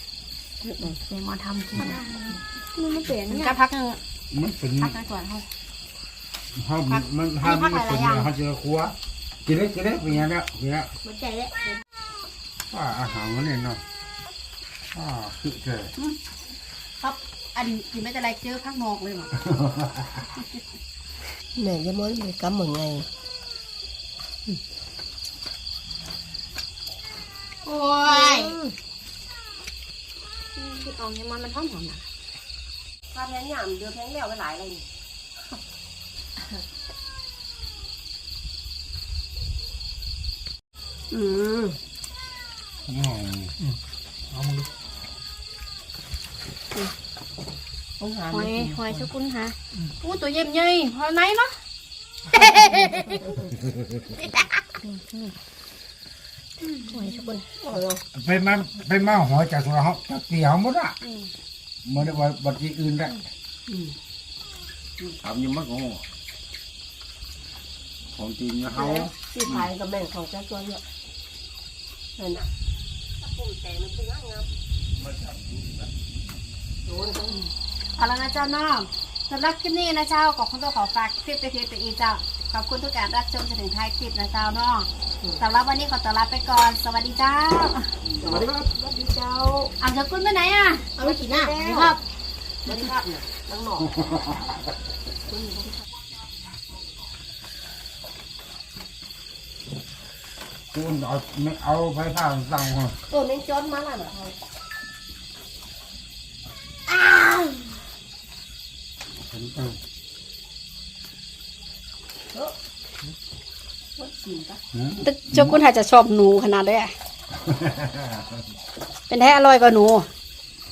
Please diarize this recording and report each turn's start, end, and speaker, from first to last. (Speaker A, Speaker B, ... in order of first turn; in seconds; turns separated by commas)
Speaker A: 0.7-2.2, Speaker B: 1.9-3.6, Speaker A: 3.2-4.0, Speaker C: 4.3-5.0, Speaker A: 4.8-5.4, Speaker C: 6.5-10.9, Speaker A: 6.9-8.3, Speaker B: 11.1-11.8, Speaker C: 12.7-13.8, Speaker C: 14.9-15.9, Speaker A: 17.0-19.3, Speaker C: 19.4-20.2, Speaker D: 21.5-23.1, Speaker A: 27.6-28.6, Speaker D: 28.0-28.7, Speaker A: 30.6-32.0, Speaker D: 33.1-34.9, Speaker A: 41.1-41.5, Speaker C: 42.9-43.7, Speaker C: 44.3-44.7, Speaker D: 48.0-49.1, Speaker A: 48.3-51.6, Speaker A: 52.3-53.5, Speaker A: 54.2-55.3, Speaker A: 56.8-57.4, Speaker D: 57.0-58.0, Speaker C: 58.1-61.0, Speaker A: 61.0-61.3, Speaker C: 61.8-63.2, Speaker D: 63.7-63.9, Speaker C: 65.2-66.0, Speaker C: 68.1-69.1, Speaker D: 68.7-70.9, Speaker D: 72.2-72.5, Speaker D: 73.2-74.5, Speaker C: 75.0-75.8, Speaker D: 76.8-77.5, Speaker A: 78.0-87.9, Speaker D: 88.2-89.7, Speaker A: 89.8-92.0, Speaker D: 91.0-92.0, Speaker D: 92.6-94.2, Speaker D: 95.3-95.8, Speaker C: 100.7-103.0, Speaker D: 103.1-104.3, Speaker D: 107.0-107.6, Speaker C: 109.3-109.8, Speaker D: 114.0-114.6, Speaker C: 114.7-115.5, Speaker A: 115.0-116.9, Speaker C: 117.5-118.2, Speaker A: 119.1-120.1